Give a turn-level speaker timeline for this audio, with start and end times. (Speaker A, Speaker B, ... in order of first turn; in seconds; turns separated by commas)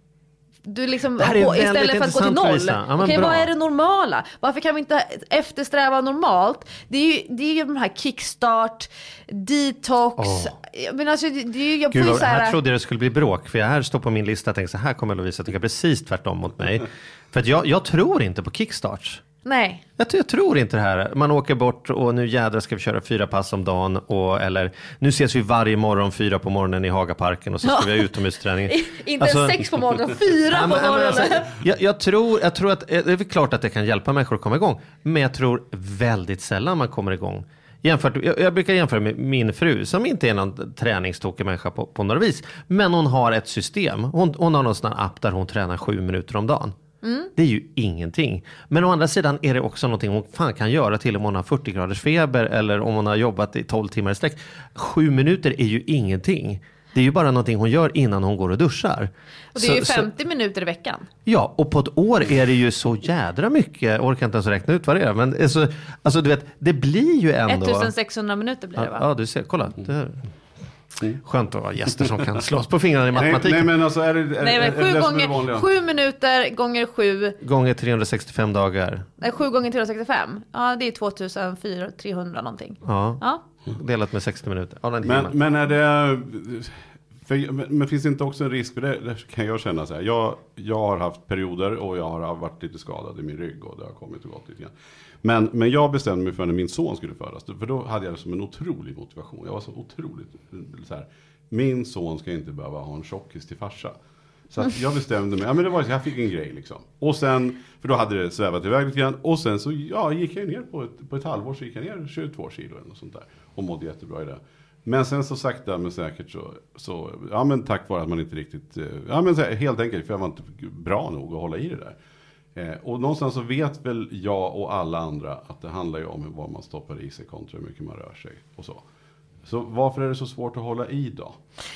Speaker A: 0.6-12.6, Speaker B: 1.2-3.5, Speaker B: 10.2-10.5, Speaker B: 11.9-19.2, Speaker A: 19.4-19.8, Speaker B: 20.0-29.6, Speaker A: 27.6-31.5, Speaker B: 30.5-46.7, Speaker A: 47.0-47.3, Speaker B: 47.4-60.1, Speaker A: 59.5-61.1, Speaker B: 61.2-67.9, Speaker A: 67.5-69.0, Speaker B: 68.8-70.3, Speaker B: 71.1-73.7, Speaker C: 73.2-75.7, Speaker A: 74.4-77.4, Speaker B: 77.4-79.1, Speaker A: 79.2-83.4, Speaker B: 82.8-85.3, Speaker C: 85.0-94.7, Speaker C: 95.2-103.9, Speaker C: 104.5-122.0, Speaker C: 122.5-128.8, Speaker C: 129.4-131.4